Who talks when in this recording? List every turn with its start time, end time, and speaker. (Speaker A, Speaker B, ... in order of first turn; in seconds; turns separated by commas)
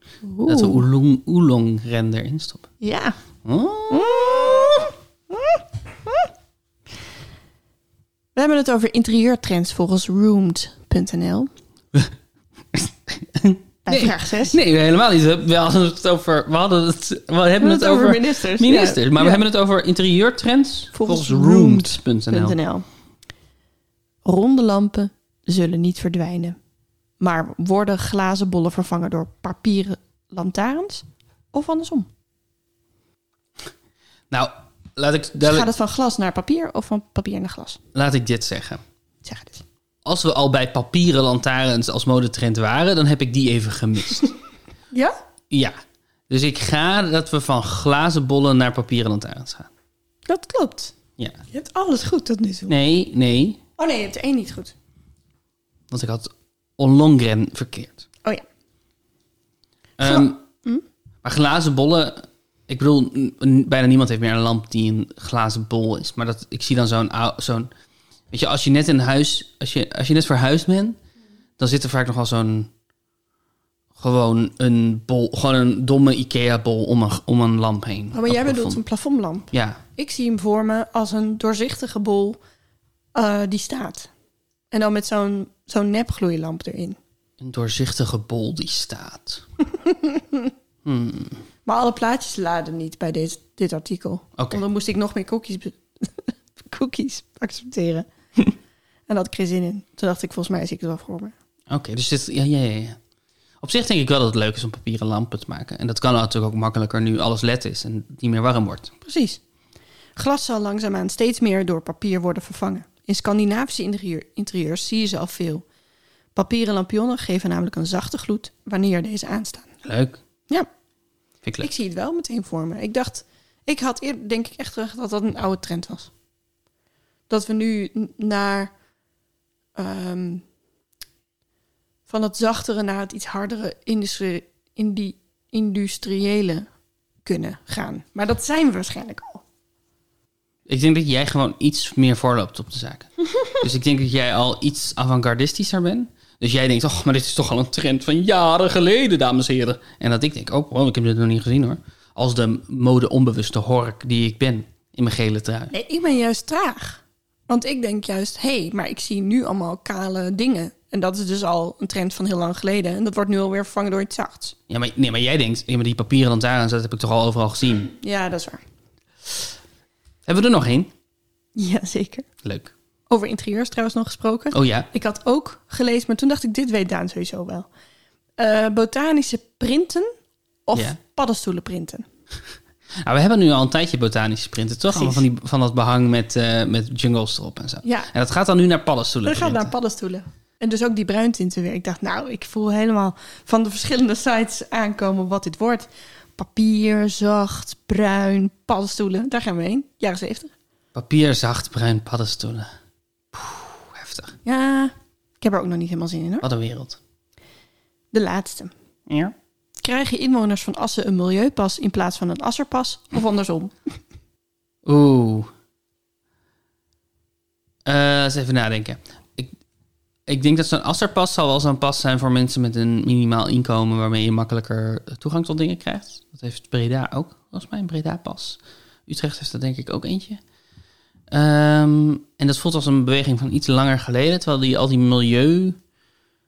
Speaker A: 0.2-0.8, Speaker B: 0.5-2.7, Speaker A: 2.8-3.2, Speaker B: 3.4-4.6, Speaker A: 3.9-6.3, Speaker A: 8.3-11.5, Speaker B: 12.7-22.6, Speaker A: 13.9-14.6, Speaker A: 17.6-19.4, Speaker A: 20.9-22.9, Speaker A: 24.2-26.6, Speaker A: 27.2-32.1, Speaker B: 34.3-35.7, Speaker A: 35.4-37.8, Speaker B: 37.9-38.8, Speaker A: 39.2-39.6, Speaker B: 40.0-44.3, Speaker B: 46.3-49.7, Speaker A: 50.3-51.0, Speaker A: 51.5-52.7, Speaker B: 52.7-53.6, Speaker A: 53.8-54.7, Speaker B: 55.9-58.1, Speaker B: 60.0-60.4, Speaker A: 60.0-60.8, Speaker B: 61.2-67.7, Speaker B: 68.3-71.0, Speaker B: 71.6-72.7, Speaker B: 74.0-78.8, Speaker A: 78.1-82.4, Speaker B: 79.5-79.8, Speaker A: 83.2-84.1, Speaker A: 84.7-87.0, Speaker B: 87.4-89.4, Speaker A: 89.8-90.5, Speaker B: 90.8-91.4, Speaker A: 91.7-98.1, Speaker A: 99.1-101.3, Speaker B: 101.7-103.0, Speaker B: 103.6-108.9, Speaker A: 109.0-109.4, Speaker A: 110.2-115.7, Speaker A: 116.3-119.7, Speaker B: 119.8-120.2, Speaker A: 121.6-126.1, Speaker A: 127.3-128.7, Speaker A: 129.8-130.4, Speaker A: 132.1-136.7, Speaker A: 137.2-139.4, Speaker B: 140.7-155.7, Speaker A: 155.7-164.6, Speaker B: 164.7-168.0, Speaker A: 168.0-168.6, Speaker B: 170.3-170.9, Speaker A: 171.6-172.3, Speaker B: 172.4-172.7, Speaker A: 173.1-177.7, Speaker B: 174.5-174.9, Speaker A: 178.4-180.1, Speaker A: 180.7-182.1, Speaker B: 183.0-189.7, Speaker A: 184.9-185.3, Speaker A: 187.8-188.1, Speaker A: 189.2-200.5, Speaker B: 200.9-202.7, Speaker B: 203.3-204.4, Speaker A: 204.4-206.4, Speaker B: 206.4-207.0, Speaker A: 208.1-208.7, Speaker B: 209.1-209.3, Speaker A: 209.8-213.9, Speaker B: 214.8-215.5, Speaker B: 217.9-219.5, Speaker B: 220.3-230.4, Speaker B: 231.3-235.8